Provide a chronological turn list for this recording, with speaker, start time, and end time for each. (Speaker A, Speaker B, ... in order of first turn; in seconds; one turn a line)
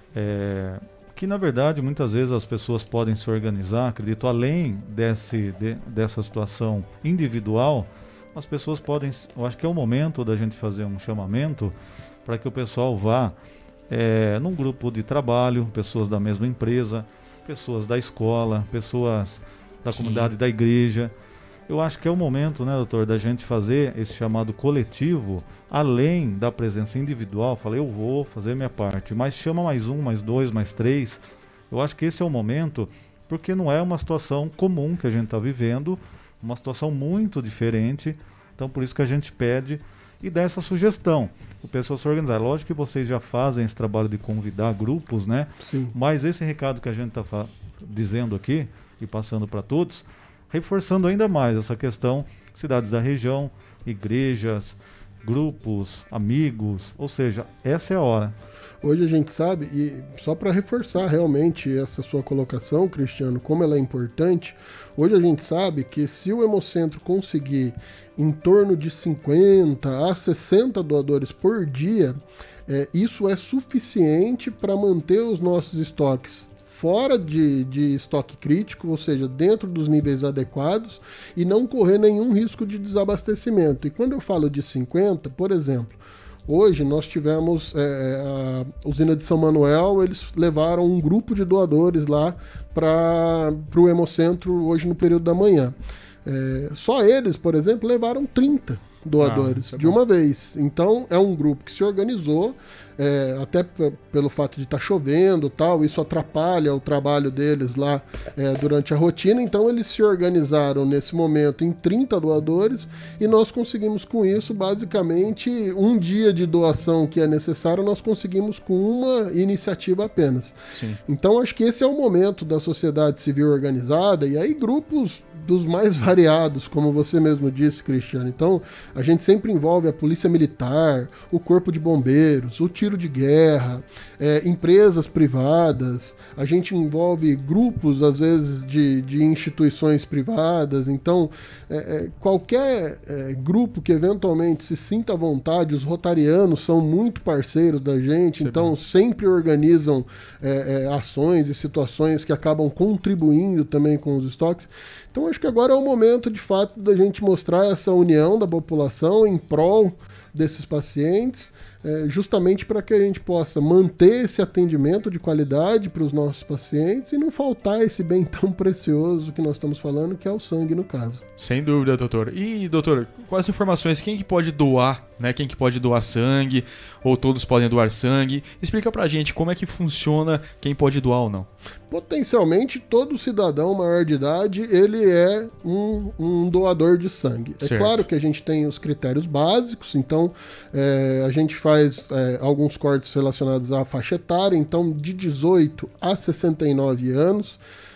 Speaker A: 0.1-13.3
Speaker A: 13.9-21.1
Speaker B: 19.9-20.3
Speaker A: 21.7-58.3
Speaker C: 45.6-45.9
Speaker C: 58.8-72.2
Speaker C: 72.7-95.7
Speaker C: 96.2-120.5
Speaker B: 99.2-100.0
Speaker B: 120.7-121.0
Speaker C: 121.1-171.2
Speaker B: 148.4-148.7
Speaker B: 171.4-181.5
Speaker C: 181.9-197.6
Speaker B: 187.6-188.0